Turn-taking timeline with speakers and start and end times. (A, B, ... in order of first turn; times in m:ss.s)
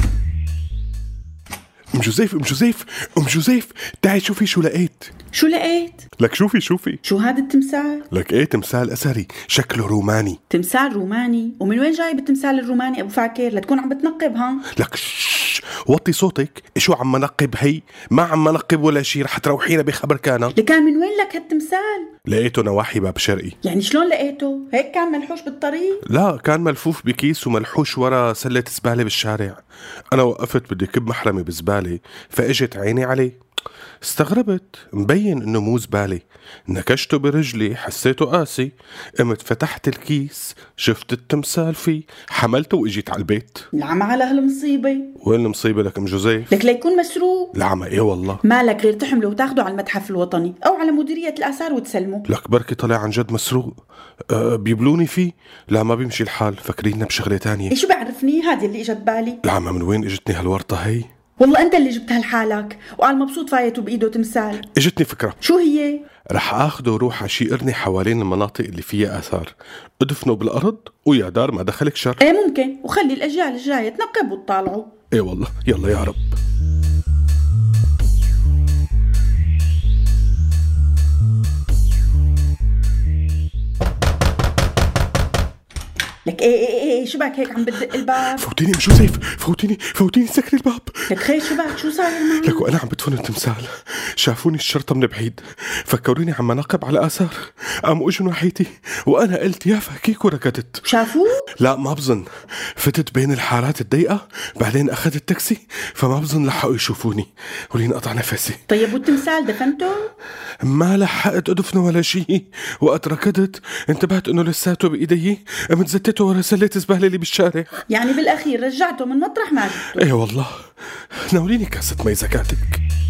0:01.9-0:05.1 A
0:05.3-0:06.0 B
0:06.2-0:07.0 A
0:07.0-0:08.1 B
0:08.1-0:10.4 A
0:10.5-0:14.7 B
0:14.8-0:20.6 A
0:20.5-0:22.1 B
0:22.3-0:23.6 A
0:23.6-0:26.0 B
0:26.1-0:29.6 A
0:30.1-0:33.4 A
0:34.0-0:43.7 A
0:43.7-0:45.1 B
0:45.2-0:46.6 A
0:46.5-0:47.5 B
0:47.6-0:48.4 A
0:48.4-0:52.3 B
0:52.3-0:53.8 A
0:54.3-0:57.7 A
0:57.7-0:59.4 B
0:59.4-1:01.1 A
1:01.4-1:04.7 B
1:04.7-1:05.4 A
1:05.4-1:06.0 B
1:06.3-1:12.2 A
1:12.2-1:14.9 B
1:15.1-1:16.4 A
1:26.2-1:28.4 B
1:28.2-1:40.8 A
1:31.1-1:32.7 B
1:40.8-1:41.4 B
1:41.6-1:48.7 A
1:48.7-1:50.1 B
1:50.6-1:57.8 A
1:57.9-2:00.1 B
2:00.0-2:02.8 A